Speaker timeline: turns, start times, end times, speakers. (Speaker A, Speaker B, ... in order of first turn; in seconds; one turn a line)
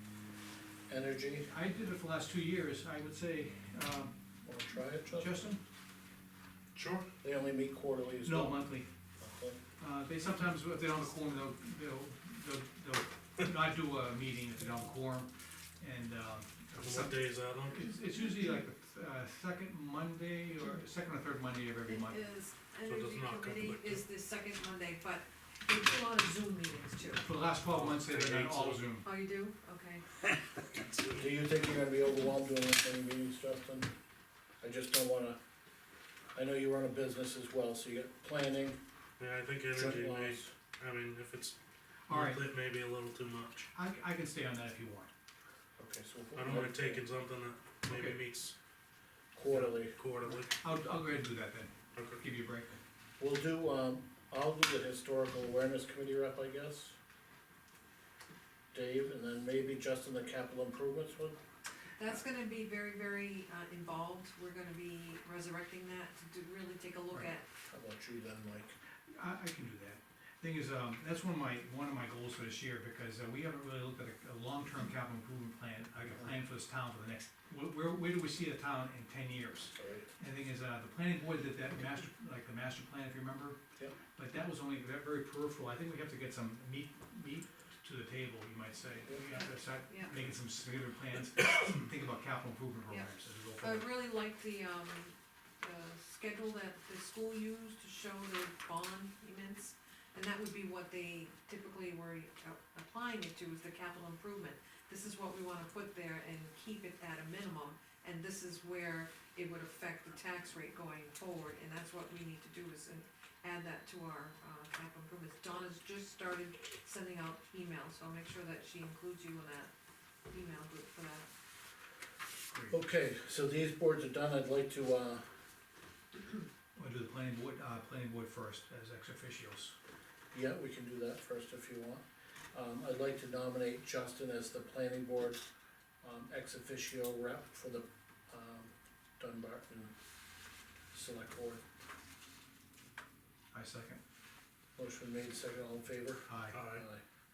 Speaker A: 0.9-1.5
Speaker B: 1.5-4.1
Speaker A: 4.4-5.4
Speaker B: 5.1-5.6
Speaker C: 6.8-7.1
Speaker A: 7.2-8.6
Speaker B: 8.2-8.9
Speaker A: 9.2-9.6
Speaker B: 9.8-15.3
Speaker B: 15.8-22.2
Speaker C: 16.8-17.8
Speaker D: 21.9-27.2
Speaker C: 22.9-24.0
Speaker B: 27.2-29.1
Speaker C: 27.6-28.9
Speaker D: 29.0-30.0
Speaker A: 31.1-33.9
Speaker A: 34.6-35.4
Speaker A: 36.3-38.8
Speaker C: 39.2-41.5
Speaker A: 39.7-40.5
Speaker B: 42.1-42.5
Speaker C: 42.1-43.7
Speaker B: 43.7-45.1
Speaker A: 45.8-47.0
Speaker C: 46.4-48.5
Speaker B: 47.9-48.2
Speaker A: 49.3-50.0
Speaker C: 49.5-50.5
Speaker B: 50.4-52.8
Speaker C: 52.0-52.2
Speaker A: 53.2-57.0
Speaker A: 58.7-61.4
Speaker D: 62.0-67.4
Speaker A: 67.7-68.8
Speaker B: 69.1-83.6
Speaker A: 79.8-80.1
Speaker B: 84.1-93.9
Speaker D: 92.9-119.7
Speaker D: 120.3-121.3
Speaker A: 122.7-125.2
Speaker B: 126.8-129.8
Speaker A: 130.3-135.4
Speaker A: 136.0-139.9
Speaker A: 140.9-141.6
Speaker B: 143.5-144.0
Speaker A: 144.8-147.0
Speaker B: 146.3-146.6
Speaker C: 146.5-146.8